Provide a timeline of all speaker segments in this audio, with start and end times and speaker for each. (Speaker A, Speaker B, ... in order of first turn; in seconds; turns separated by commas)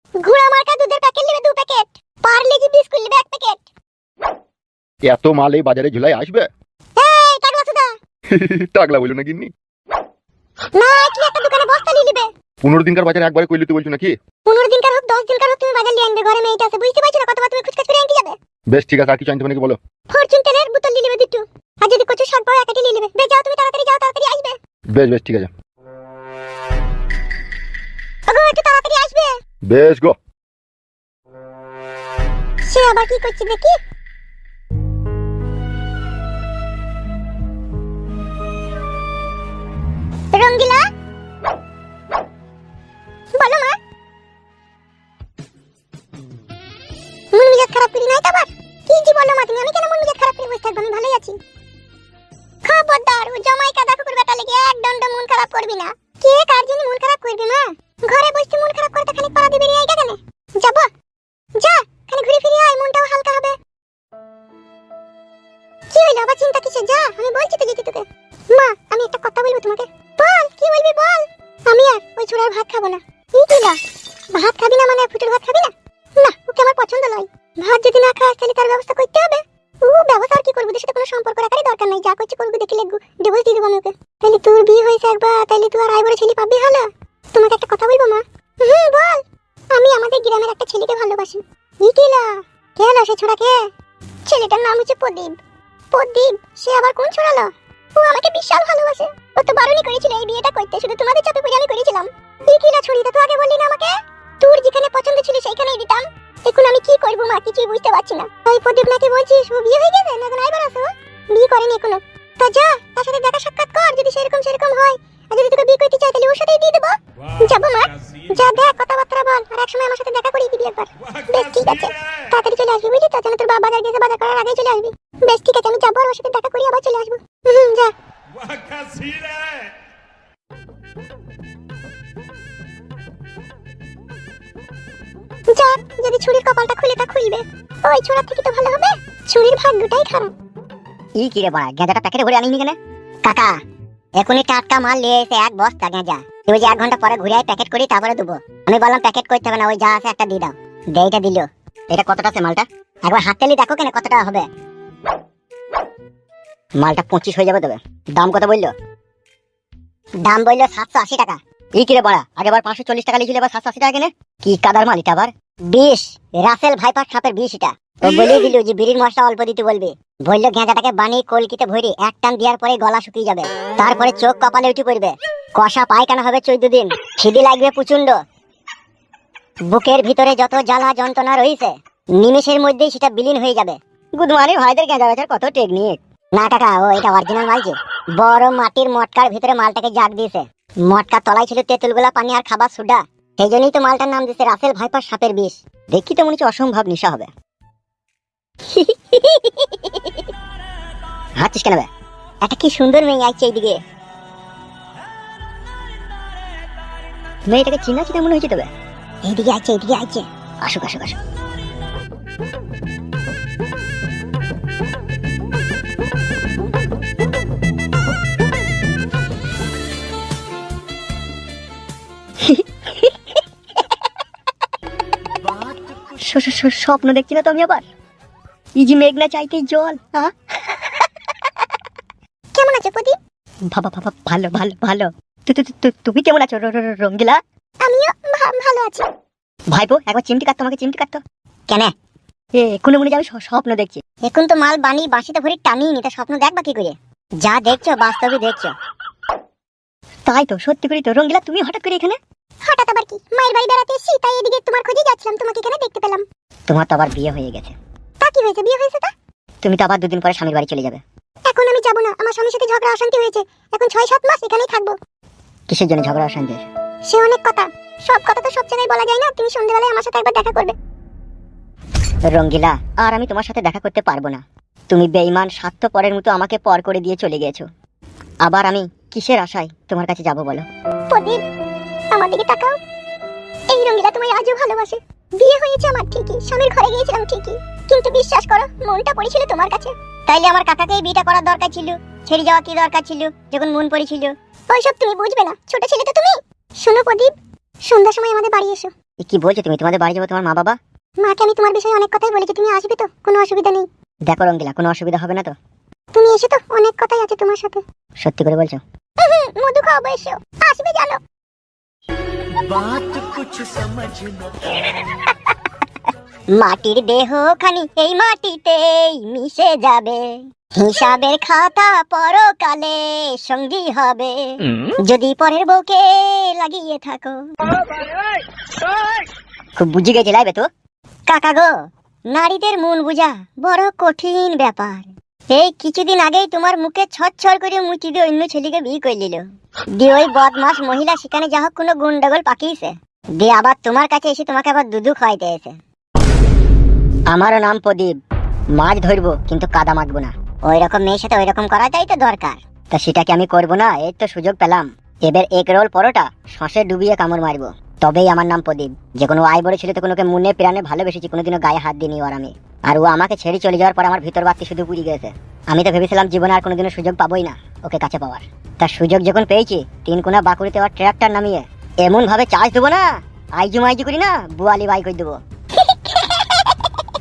Speaker A: 0.2-3.6, Speaker B: 5.0-6.5, Speaker A: 7.0-7.9, Speaker B: 8.3-9.5, Speaker A: 10.8-12.3, Speaker B: 12.6-14.2, Speaker A: 14.5-18.4, Speaker B: 18.7-19.8, Speaker A: 20.1-24.6, Speaker B: 24.9-25.5, Speaker A: 28.3-29.3, Speaker B: 29.7-30.1, Speaker A: 32.6-33.8, Speaker A: 40.3-40.9, Speaker A: 43.4-43.8, Speaker A: 47.3-51.4, Speaker A: 52.6-60.9, Speaker A: 61.6-63.6, Speaker A: 65.9-73.8, Speaker A: 74.3-89.2, Speaker A: 89.7-93.6, Speaker A: 94.3-95.4, Speaker A: 95.9-127.9, Speaker A: 128.7-129.2, Speaker A: 135.5-140.3, Speaker C: 141.2-143.6, Speaker C: 144.2-154.5, Speaker C: 156.8-158.7, Speaker C: 160.2-178.2, Speaker C: 179.7-197.3, Speaker C: 198.7-200.2, Speaker C: 201.4-201.9, Speaker C: 202.4-203.8, Speaker C: 207.5-208.7, Speaker C: 209.2-211.2, Speaker C: 222.4-223.2, Speaker C: 225.9-227.8, Speaker C: 228.8-231.0, Speaker A: 232.6-233.2, Speaker C: 233.7-237.4, Speaker A: 237.8-239.1, Speaker C: 239.7-241.9, Speaker C: 242.6-248.7, Speaker C: 250.3-252.2, Speaker A: 252.7-256.2, Speaker C: 256.7-257.7, Speaker A: 258.2-259.1, Speaker C: 259.6-261.0, Speaker A: 261.5-265.0, Speaker C: 265.7-266.6, Speaker A: 267.1-270.8, Speaker C: 272.3-277.6, Speaker C: 278.4-280.7, Speaker A: 281.1-281.4, Speaker A: 282.1-282.8, Speaker A: 283.7-289.9, Speaker C: 290.3-294.3, Speaker A: 294.7-297.3, Speaker A: 297.9-298.9, Speaker C: 299.2-300.8, Speaker A: 301.2-303.9, Speaker C: 304.3-305.5, Speaker A: 306.1-307.8, Speaker C: 308.2-308.8, Speaker A: 309.2-311.2, Speaker C: 312.7-314.1, Speaker C: 314.8-315.3, Speaker C: 316.5-327.5, Speaker C: 329.8-330.7, Speaker C: 331.3-345.8, Speaker C: 347.3-348.2, Speaker C: 348.8-377.1